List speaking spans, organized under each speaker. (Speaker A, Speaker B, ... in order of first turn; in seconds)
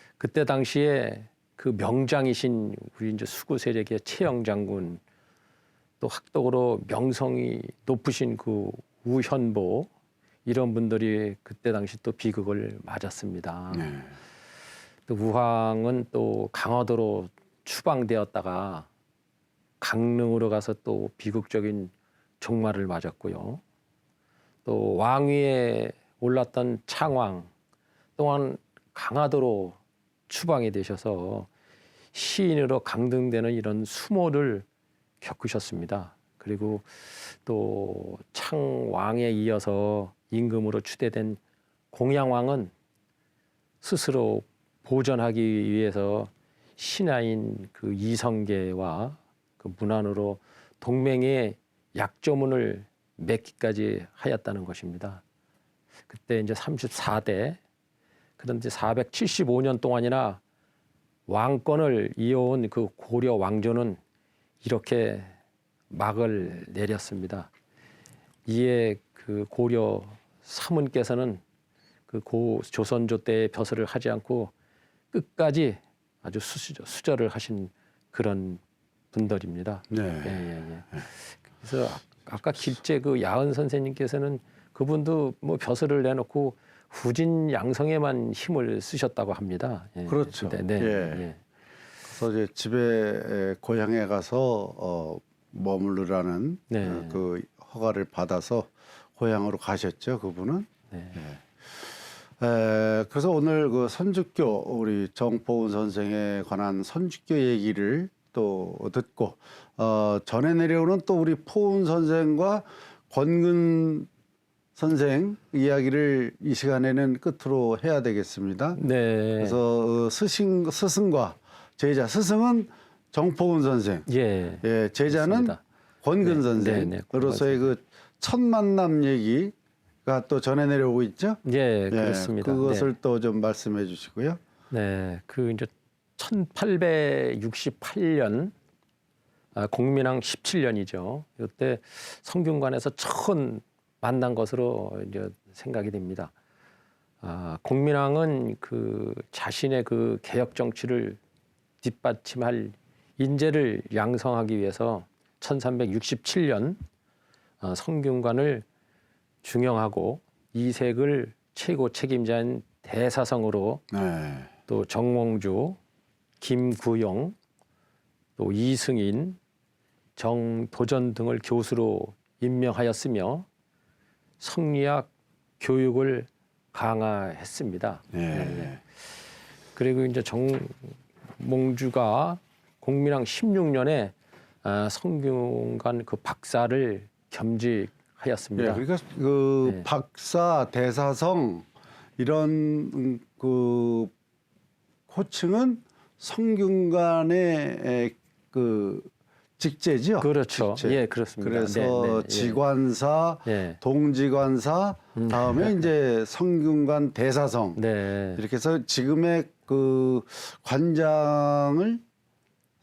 Speaker A: 0.2-5.0, 6.0-9.9, 10.4-13.9, 15.1-18.9, 19.8-23.6, 24.6-27.5, 28.2-29.8, 30.3-31.5, 32.1-34.6, 35.2-41.4, 41.9-42.7, 43.8-55.2, 56.1-57.6, 58.4-60.4, 61.3-64.0, 64.6-65.3, 65.9-67.5, 68.5-71.4, 72.1-74.5, 75.1-78.6, 79.1-91.4, 96.7-97.2, 100.9-101.2, 118.8-119.6, 124.1-125.6, 126.2-127.7, 131.4-132.9, 134.7-138.5, 139.5-146.3, 147.2-151.2, 151.8-156.8, 157.6-158.6, 159.4-163.8, 164.7-165.8, 166.4-167.3, 168.4-169.4, 170.2-173.4, 174.4-178.7, 179.8-188.8, 200.2-202.6, 203.4-203.8, 205.2-205.9, 207.7-208.4
Speaker B: 13.7-14.1, 79.9-81.0, 90.1-91.3, 92.0-114.1, 114.8-118.8, 119.4-124.1, 124.6-129.5, 130.0-134.4, 163.9-164.5, 178.1-178.8, 188.6-191.7, 192.2-194.1, 195.1-207.8, 208.3-212.0